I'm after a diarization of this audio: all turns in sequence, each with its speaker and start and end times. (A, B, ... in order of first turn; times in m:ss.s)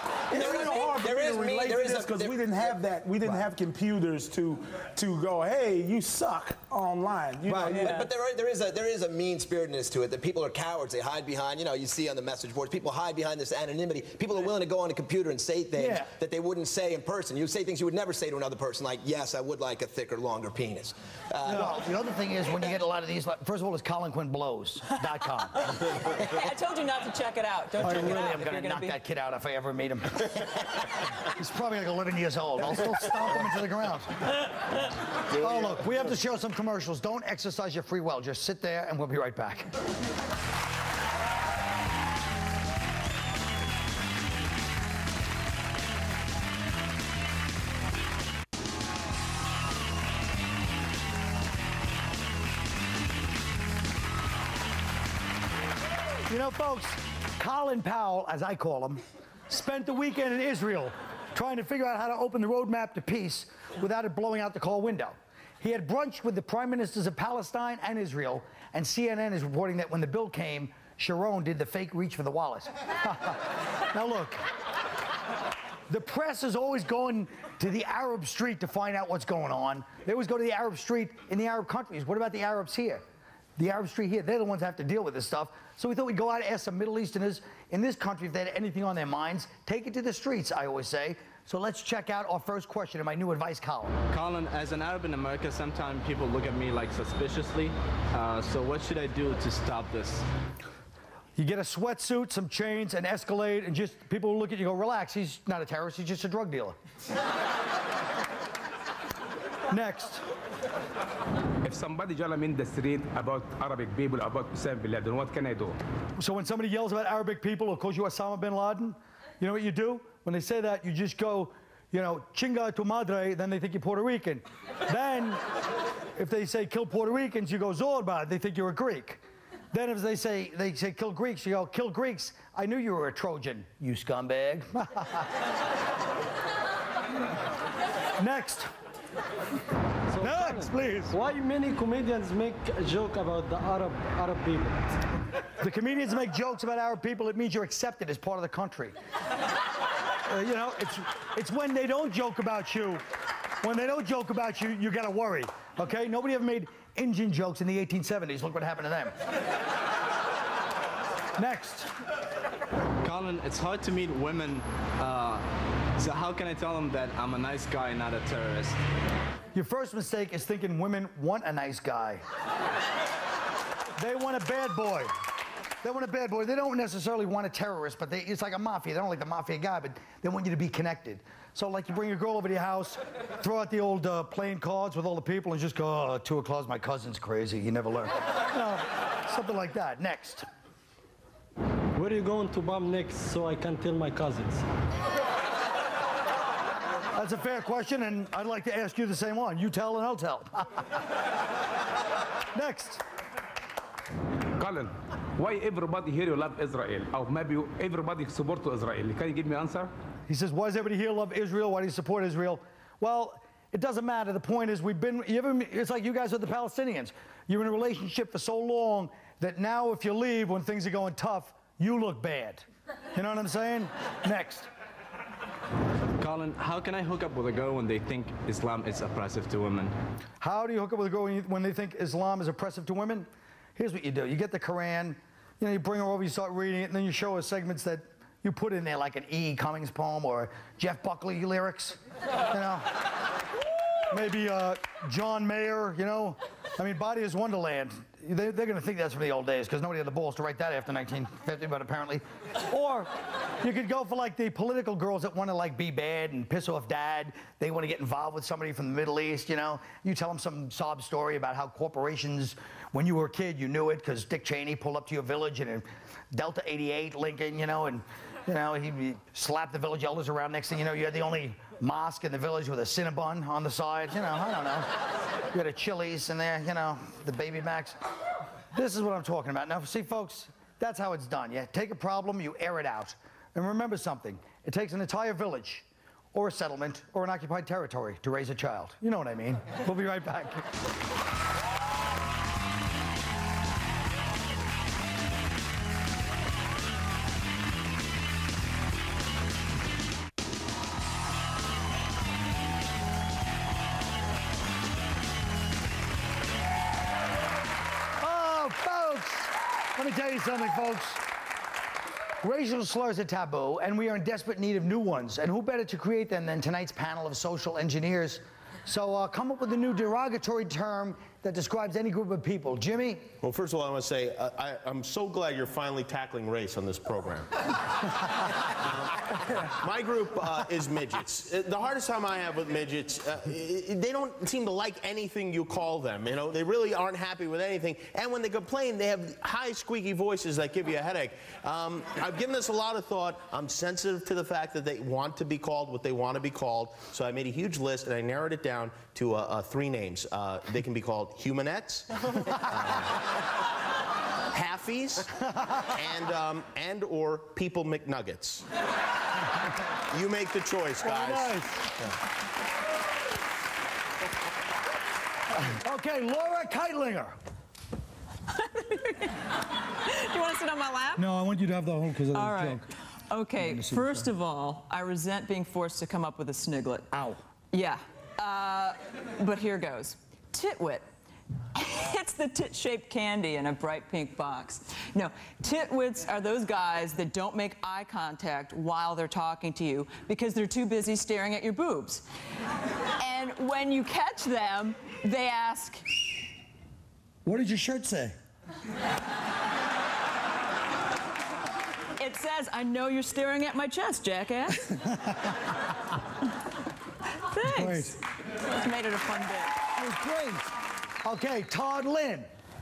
0:00.3-0:02.7 A
0:00.3-0:08.0 B
0:07.7-0:21.8 A
0:07.7-0:08.1 C
0:15.8-0:16.1 D
0:21.4-0:25.7 D
0:25.6-0:29.0 C
0:27.8-0:34.5 D
0:35.3-0:39.7 D
0:56.3-1:14.4 D
1:15.9-1:23.0 D
1:23.6-1:33.9 D
1:34.1-1:40.2 E
1:41.4-1:46.8 D
1:49.7-1:50.2 D
1:51.6-1:55.8 F
1:56.2-2:05.4 D
2:06.2-2:09.2 D
2:09.7-2:15.3 D
2:18.2-2:18.7 D
2:20.1-2:24.9 G
2:20.2-2:21.2 D
2:25.6-2:29.0 D
2:30.3-2:33.0 D
2:33.6-2:39.1 D
2:41.4-2:41.9 D
2:43.0-2:48.8 E
2:49.5-2:52.2 D
2:54.0-2:55.1 D
2:55.8-3:10.4 D
3:11.9-3:14.6 G
3:17.1-3:20.8 D
3:22.5-3:23.0 D
3:24.6-3:29.9 F
3:30.3-3:44.7 D
3:46.2-3:49.9 E
3:50.4-4:03.0 D
4:04.1-4:13.1 D
4:13.6-4:34.9 D
4:35.5-4:38.0 D
4:38.7-4:50.7 D
5:08.2-5:11.2 D
5:12.4-5:23.2 D
5:23.4-5:53.2 H
5:54.5-5:55.3 H
5:55.6-5:55.8 D
5:55.9-5:58.6 H
6:00.1-6:01.6 H
6:01.0-6:01.9 D
6:05.6-6:07.4 D
6:08.5-6:11.3 C
6:11.2-6:12.8 D
6:12.3-6:17.1 C
6:13.6-6:14.2 D
6:17.1-6:17.4 D
6:17.7-6:21.0 C
6:21.7-6:32.2 C
6:33.2-6:36.0 C
6:37.4-6:38.3 D
6:42.2-6:44.9 C
6:45.1-6:45.6 D
6:47.5-6:49.8 C
6:47.6-6:48.1 D
6:49.8-6:50.7 D
6:51.2-6:52.5 D